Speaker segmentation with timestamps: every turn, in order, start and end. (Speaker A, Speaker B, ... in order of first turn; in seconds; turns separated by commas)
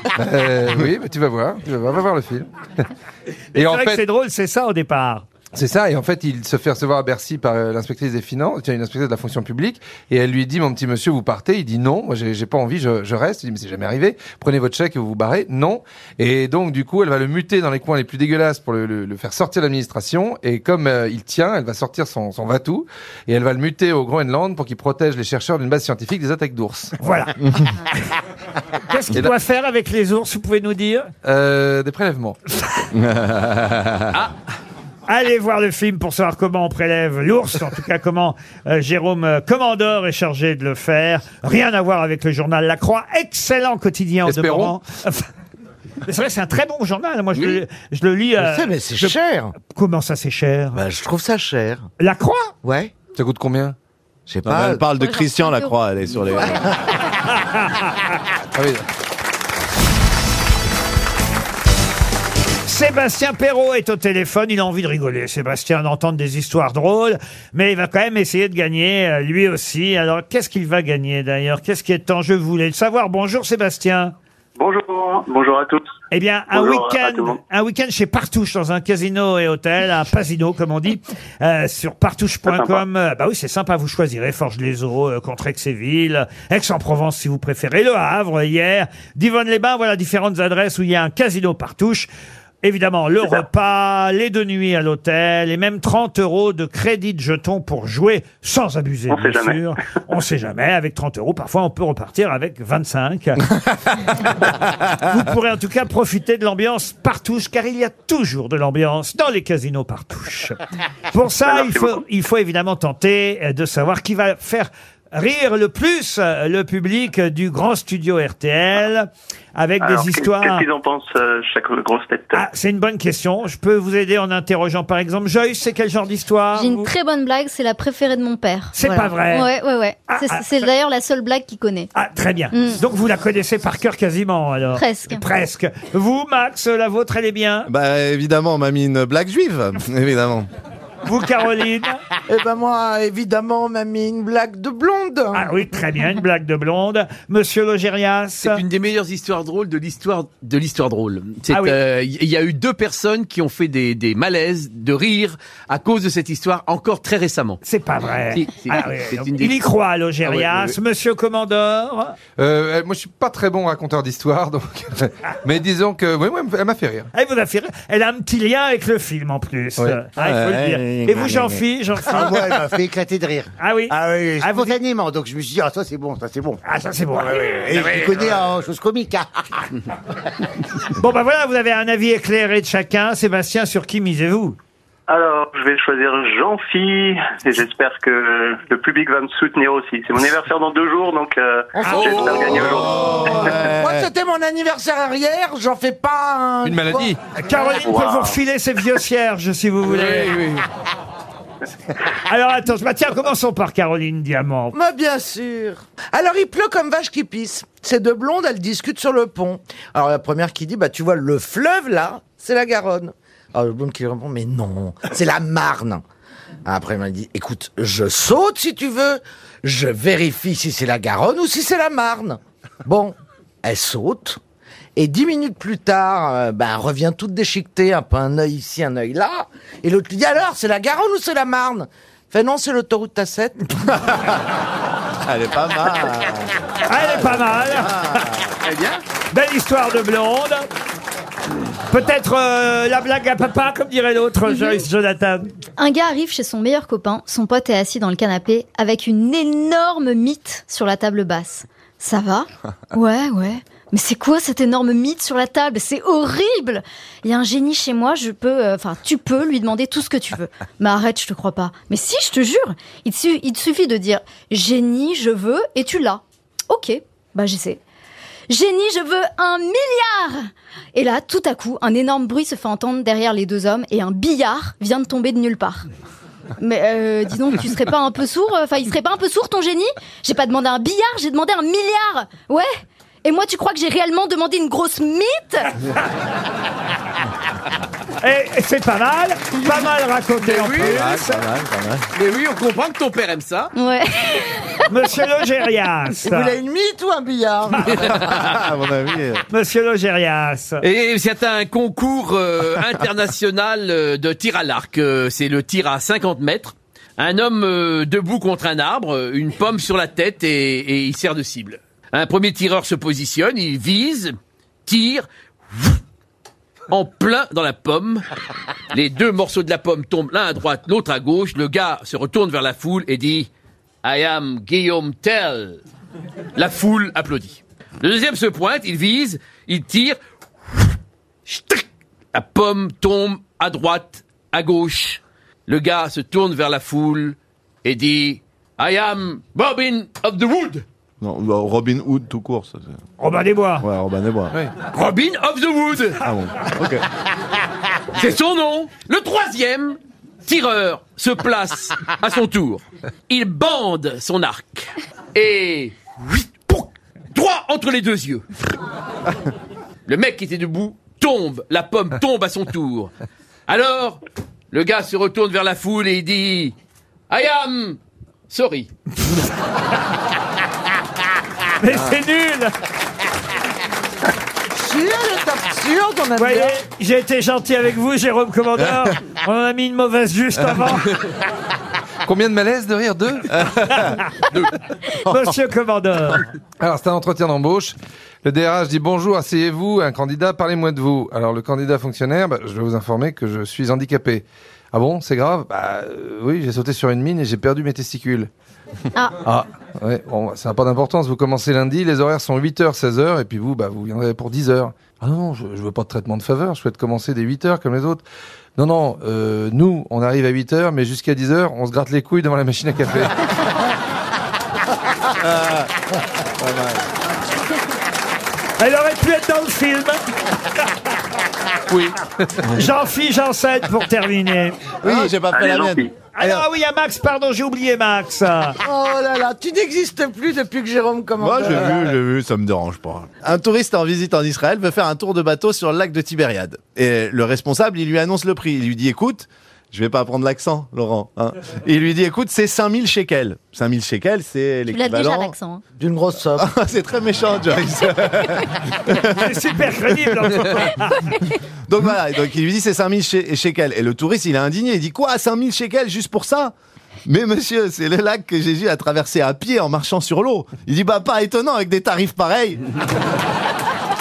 Speaker A: 0.1-2.5, Speaker A: 3.5-4.0, Speaker B: 3.5-5.3, Speaker A: 5.5-26.9, Speaker B: 27.0-27.6, Speaker B: 28.9-31.1, Speaker A: 31.2-32.4, Speaker C: 32.9-34.1, Speaker B: 35.1-45.3, Speaker A: 44.3-44.7, Speaker B: 46.0-50.8, Speaker D: 47.3-47.6, Speaker E: 48.4-49.5, Speaker E: 50.7-51.9, Speaker B: 52.0-52.5, Speaker E: 52.6-52.9, Speaker A: 53.1-53.8, Speaker E: 54.3-54.9, Speaker C: 54.4-56.6, Speaker F: 54.9-55.7, Speaker B: 57.4-57.8, Speaker A: 58.5-58.8, Speaker B: 62.6-74.1, Speaker G: 74.6-75.8, Speaker B: 76.1-92.1, Speaker G: 76.5-77.4, Speaker G: 82.5-82.8, Speaker B: 92.6-103.5, Speaker G: 99.1-99.6, Speaker B: 105.0-110.6, Speaker B: 111.1-120.6, Speaker G: 111.5-112.0, Speaker G: 119.8-122.4, Speaker B: 122.3-126.9, Speaker F: 126.5-131.9, Speaker B: 128.7-129.5, Speaker B: 130.1-130.6, Speaker B: 131.9-137.7, Speaker F: 132.5-132.8, Speaker F: 134.7-135.2, Speaker C: 137.7-140.5, Speaker B: 141.0-142.0, Speaker E: 142.3-145.5, Speaker B: 145.3-148.6, Speaker D: 148.4-157.6, Speaker B: 151.5-151.8, Speaker B: 157.6-162.1, Speaker D: 158.3-159.5, Speaker D: 160.2-160.7, Speaker A: 162.4-167.1, Speaker B: 167.1-172.5, Speaker C: 170.2-171.1, Speaker H: 170.9-176.6, Speaker B: 173.6-174.8, Speaker B: 176.6-178.3, Speaker H: 177.2-179.3, Speaker B: 180.9-184.6, Speaker G: 185.1-193.5, Speaker E: 191.8-197.1, Speaker D: 191.9-192.6, Speaker C: 192.7-194.1, Speaker A: 196.6-197.2, Speaker B: 197.4-200.3, Speaker G: 197.5-198.4, Speaker D: 199.8-200.6, Speaker B: 202.2-204.8, Speaker E: 204.7-216.0, Speaker E: 216.7-224.4, Speaker E: 224.9-233.6, Speaker C: 233.9-234.4, Speaker C: 235.2-238.4, Speaker B: 236.8-238.2, Speaker D: 238.6-239.0, Speaker B: 239.3-240.7, Speaker B: 241.9-245.5, Speaker F: 245.8-267.8, Speaker F: 268.5-275.8, Speaker F: 276.6-282.7, Speaker F: 283.2-285.7, Speaker B: 288.2-291.4, Speaker D: 290.4-291.0, Speaker C: 290.8-292.0, Speaker D: 292.1-293.7, Speaker F: 293.8-294.8, Speaker B: 294.9-296.5, Speaker E: 296.2-298.0, Speaker D: 297.9-298.6, Speaker C: 298.0-299.4, Speaker B: 299.5-300.8, Speaker D: 300.8-314.3, Speaker D: 314.9-316.0, Speaker D: 316.9-318.2, Speaker D: 318.9-323.5, Speaker D: 324.0-325.8, Speaker D: 326.6-330.2, Speaker D: 331.5-340.8, Speaker C: 341.2-342.9, Speaker B: 343.2-343.9, Speaker C: 343.8-344.5, Speaker D: 344.9-346.2, Speaker C: 346.2-347.0, Speaker D: 348.1-358.4, Speaker D: 360.1-363.1, Speaker D: 363.7-364.2, Speaker D: 364.7-366.8, Speaker D: 367.3-368.0, Speaker D: 368.5-368.9, Speaker B: 371.8-372.7, Speaker E: 374.7-376.8, Speaker B: 376.4-381.1, Speaker A: 382.2-384.0, Speaker B: 383.9-384.3, Speaker B: 385.2-386.4, Speaker A: 386.8-398.5, Speaker F: 399.1-399.4, Speaker A: 399.4-408.2, Speaker A: 408.8-413.3, Speaker C: 415.4-415.9, Speaker C: 416.6-417.0, Speaker B: 418.8-420.2, Speaker A: 421.9-422.6, Speaker B: 422.7-424.9, Speaker C: 425.0-426.6, Speaker G: 425.5-426.1, Speaker B: 426.3-428.8, Speaker E: 428.8-432.1, Speaker C: 431.4-445.5, Speaker F: 444.9-445.8, Speaker E: 446.0-446.7, Speaker C: 446.5-449.5, Speaker B: 449.2-451.4, Speaker C: 451.9-456.7, Speaker C: 457.2-462.8